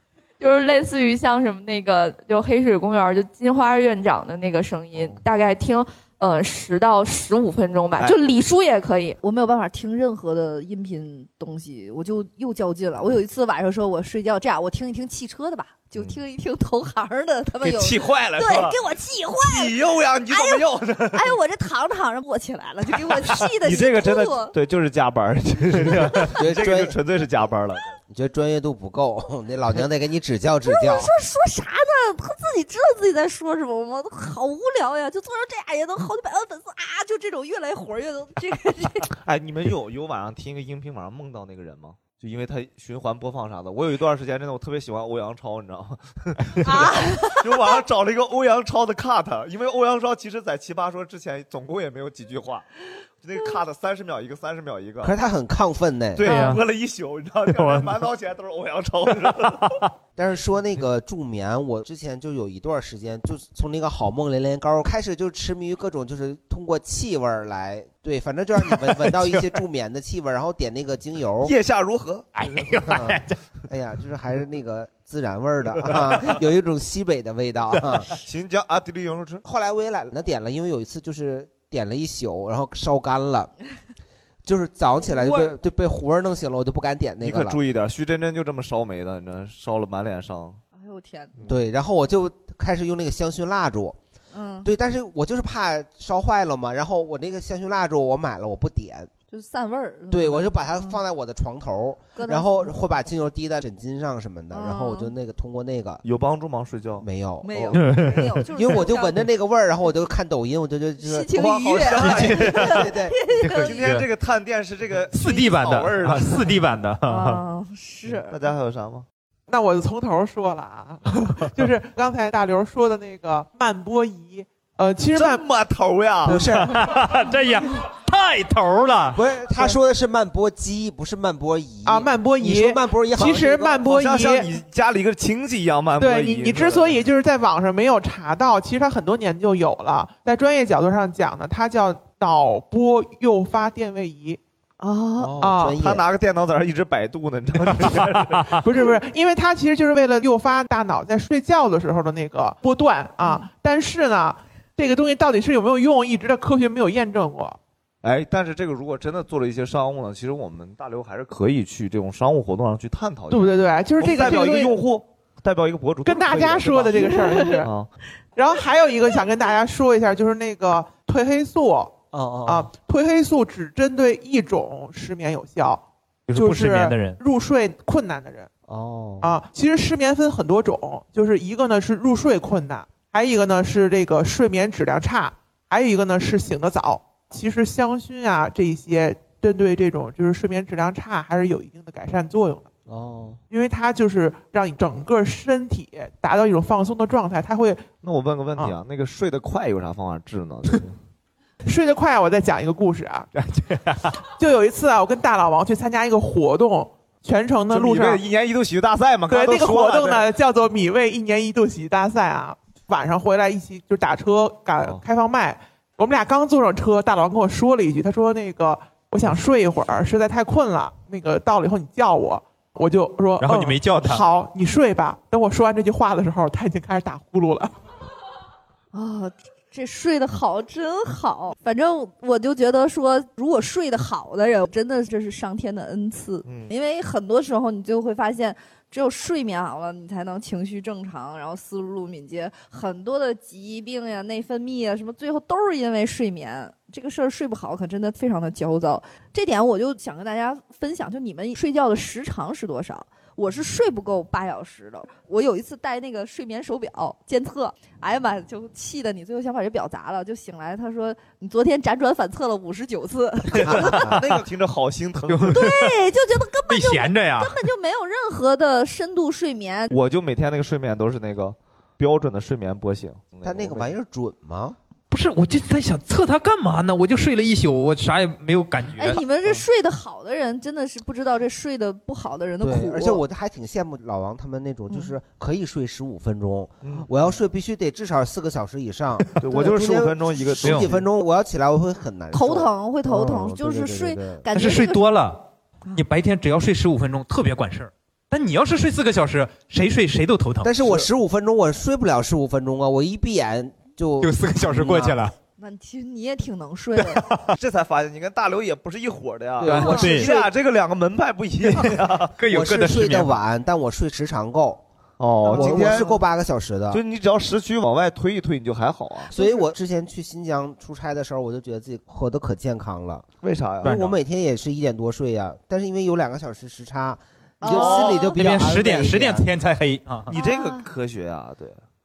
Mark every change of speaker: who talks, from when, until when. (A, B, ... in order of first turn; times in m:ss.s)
0:00.4-0:09.2 A
0:09.2-0:19.8 B
0:17.6-0:18.8 C
0:19.4-0:21.4 C
0:20.3-0:24.5 B
0:22.9-0:27.9 C
0:26.2-0:27.0 D
0:28.1-0:31.1 D
0:30.6-0:39.1 B
0:39.2-0:52.6 C
0:46.6-0:47.5 B
0:53.2-0:55.1 C
0:55.0-0:56.3 D
0:56.2-0:59.8 C
0:56.3-0:56.6 E
1:00.2-1:11.5 D
1:08.7-1:09.1 E
1:11.4-1:12.8 C
1:12.4-1:13.4 E
1:12.9-1:18.1 D
1:18.1-1:19.4 C
1:19.4-1:23.5 D
1:24.4-1:27.6 D
1:25.0-1:25.5 B
1:27.2-1:30.6 C
1:30.7-1:31.4 B
1:31.4-1:34.0 D
1:34.3-1:34.7 B
1:34.6-1:39.1 D
1:39.3-1:41.0 B
1:40.1-1:46.0 D
1:42.1-1:42.7 B
1:44.5-1:45.1 B
1:46.0-1:47.0 C
1:47.0-1:48.0 D
1:47.4-1:49.2 B
1:47.8-1:48.4 E
1:48.5-1:53.1 D
1:51.0-1:53.9 B
1:51.8-1:52.8 C
1:53.4-1:54.0 E
1:53.5-1:56.6 C
1:55.1-1:57.4 E
1:57.0-1:58.3 B
1:58.1-1:59.0 C
1:59.5-2:05.4 F
2:05.1-2:06.4 C
2:06.2-2:06.9 D
2:06.3-2:09.2 E
2:09.1-2:13.9 D
2:11.8-2:14.5 F
2:13.8-2:17.0 C
2:16.0-2:24.4 F
2:24.8-2:25.3 B
2:25.2-2:26.0 D
2:25.4-2:25.8 F
2:25.8-2:28.5 C
2:28.6-2:37.6 F
2:38.0-2:47.9 C
2:43.3-2:44.7 F
2:44.2-2:44.7 D
2:46.0-2:47.7 F
2:48.4-2:58.5 F
2:52.1-2:52.7 D
2:56.3-2:57.2 E
2:58.7-2:59.3 D
2:59.2-3:12.7 F
3:12.9-3:13.4 D
3:13.5-3:17.8 F
3:18.0-3:20.9 C
3:21.6-3:23.3 F
3:23.4-3:24.2 E
3:24.4-3:28.2 F
3:27.7-3:30.3 C
3:29.3-3:47.7 F
3:34.8-3:35.0 C
3:43.4-3:44.2 E
3:48.9-4:24.1 B
3:56.4-3:56.7 C
4:23.5-4:25.7 C
4:23.6-4:24.2 D
4:25.3-4:25.9 E
4:25.5-4:29.9 B
4:26.7-4:27.6 E
4:29.9-4:33.9 C
4:33.4-4:34.8 D
4:35.1-4:39.2 E
4:39.0-4:43.2 B
4:42.6-4:54.5 D
4:44.9-4:45.2 B
4:46.8-4:47.1 C
4:49.4-4:51.1 C
4:52.3-4:55.1 B
4:54.5-4:55.4 E
4:55.9-5:00.7 E
5:00.6-5:05.2 D
5:00.8-5:01.1 C
5:04.2-5:05.3 E
5:05.6-5:07.2 B
5:07.0-5:07.5 E
5:07.5-5:12.3 C
5:09.6-5:10.4 D
5:09.6-5:10.3 E
5:09.7-5:10.4 B
5:11.7-5:13.4 E
5:12.5-5:14.8 D
5:15.2-5:16.2 C
5:15.4-5:16.2 B
5:15.5-5:17.0 D
5:16.9-5:19.3 C
5:19.3-5:19.7 B
5:19.3-5:23.2 D
5:23.4-5:24.1 C
5:23.8-5:29.5 D
5:23.8-5:24.1 E
5:27.6-5:28.4 B
5:27.7-5:28.2 C
5:28.3-5:30.3 E
5:30.3-5:31.8 C
5:30.3-5:30.8 B